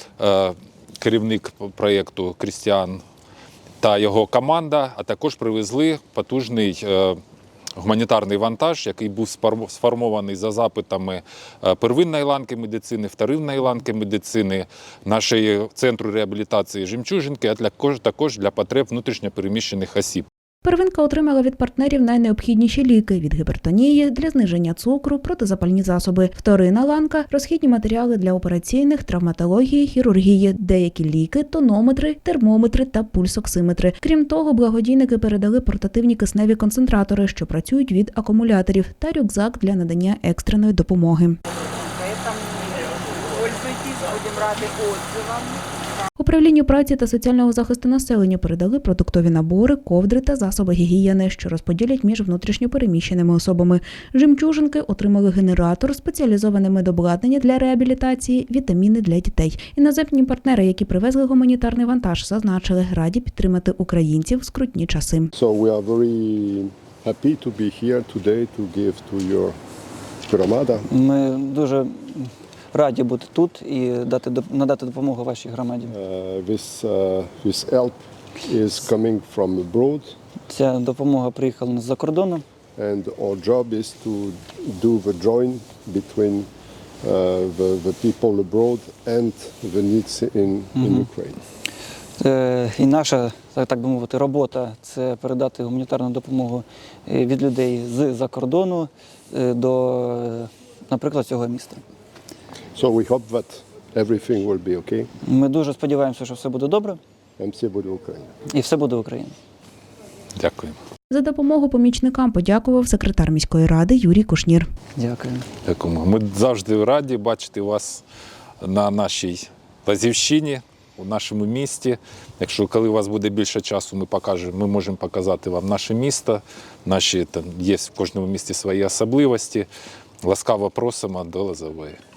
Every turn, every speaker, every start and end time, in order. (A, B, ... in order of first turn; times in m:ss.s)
0:00.2-0:03.0 A
0:03.8-0:07.2 A
0:07.8-0:20.3 A
0:20.6-0:41.4 B
0:41.8-0:45.6 C
0:46.2-1:05.3 B
1:05.3-1:09.6 D
1:10.3-1:10.9 D
1:10.9-1:15.9 E
1:15.9-1:20.2 D
1:20.5-1:22.4 E
1:22.8-1:26.5 D
1:27.0-1:31.4 D
1:30.8-1:31.1 E
1:32.2-1:41.8 E
1:42.8-1:45.1 D
1:45.2-1:47.0 E
1:47.4-1:48.3 D
1:48.5-1:49.4 E
1:50.4-1:50.8 A
1:51.1-1:54.7 B
1:55.0-1:55.5 E
1:55.6-1:58.0 A
1:58.6-2:09.7 A
2:10.2-2:12.0 A